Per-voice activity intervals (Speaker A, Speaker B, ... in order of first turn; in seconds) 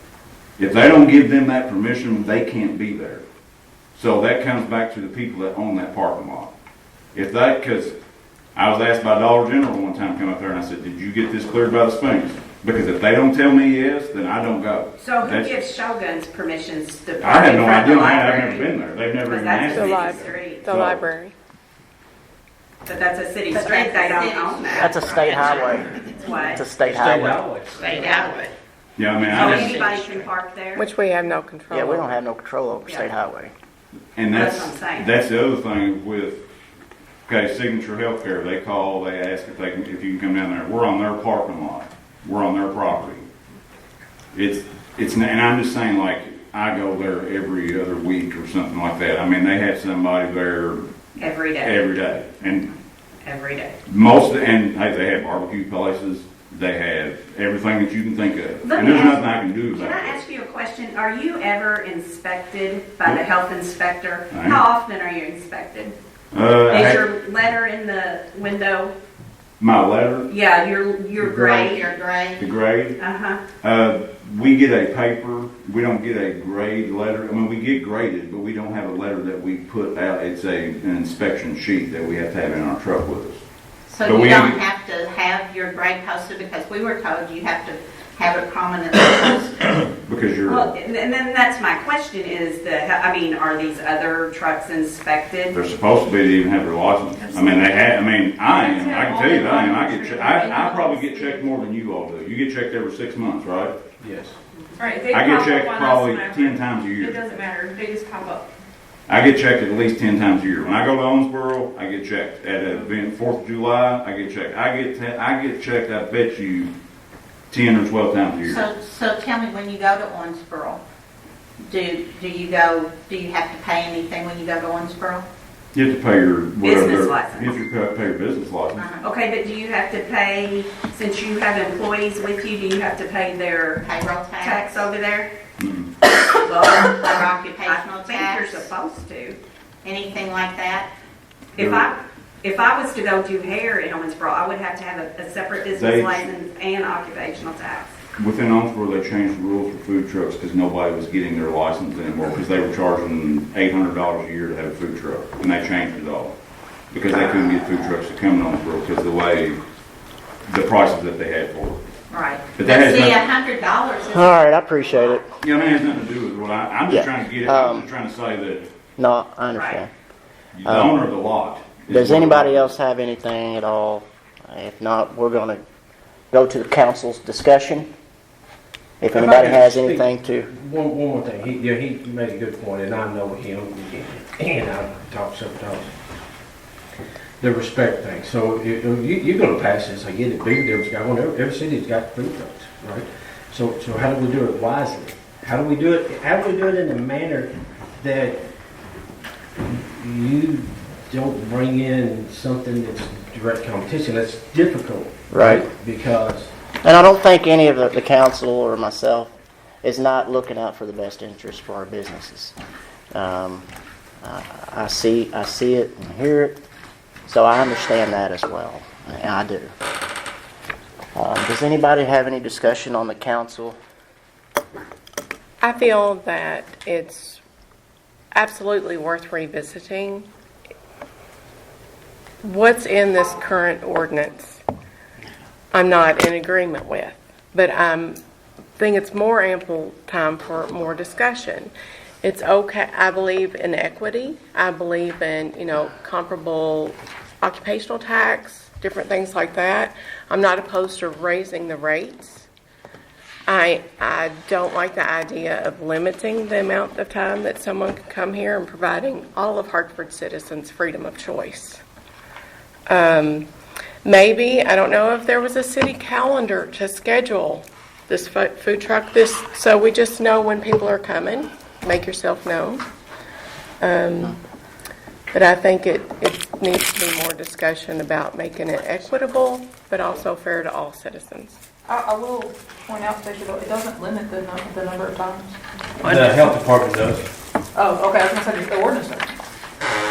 Speaker A: 0.6-3.2, 4.0-6.5, 7.1-7.9, 8.6-15.6, 17.2-21.1, 29.0-29.8, 34.1-36.4, 37.3-43.2, 44.3-50.9, 51.6-52.7, 53.9-60.2, 64.3-64.6, 66.3-67.0, 69.6-70.3, 72.4-73.0, 73.6-83.4, 84.0-84.6, 90.0-90.7, 95.5-103.8, 105.1-107.3, 109.1-116.7, 117.5-118.6, 125.7-128.8, 135.6-135.9, 141.6-141.9, 145.7-146.3, 148.2-156.3, 156.9-159.6, 160.5-161.8, 162.6-163.3, 165.4-168.7, 170.6-172.7
Speaker B: 15.0-18.7, 19.2-20.7, 22.9-26.6, 29.3-30.9, 34.3-35.1, 51.2-51.8, 53.2-53.7, 58.6-66.0, 66.7-68.9, 70.3-71.9, 73.0-73.4, 90.5-95.6, 126.6-127.5, 129.0-133.8, 134.4-134.9, 136.4-139.4, 141.6-147.9, 169.5-169.8
Speaker C: 19.7-21.3, 30.8-32.2, 225.6-227.4, 228.3-230.3, 232.4-234.6, 235.7-238.2, 238.8-241.7, 242.2-252.5, 253.5-261.8, 262.9-263.5, 264.1-272.8, 273.8-274.4, 275.3-281.6
Speaker D: 23.5-26.0, 27.8-28.5, 29.3-30.3, 71.4-72.5, 83.9-89.6, 118.4-120.8, 121.6-125.2, 128.8-129.1, 133.8-135.3, 137.0-138.7, 139.8-140.9, 162.1-165.2
Speaker E: 24.8-27.4, 31.7-33.5, 164.1-165.3, 166.9-167.9, 169.0-169.9, 170.7-171.0, 171.9-175.6, 176.3-177.9, 179.0-180.5, 205.3-205.7, 206.8-212.5, 213.1-213.6, 214.2-216.6, 217.3-219.7, 221.2-223.8
Speaker F: 26.8-28.4, 104.0-104.4, 179.1-185.9, 187.4-198.4, 199.6-206.5, 286.0-287.3
Speaker G: 97.2-97.8, 98.5-101.5, 104.8-108.4
Speaker H: 281.9-286.1, 287.8-289.4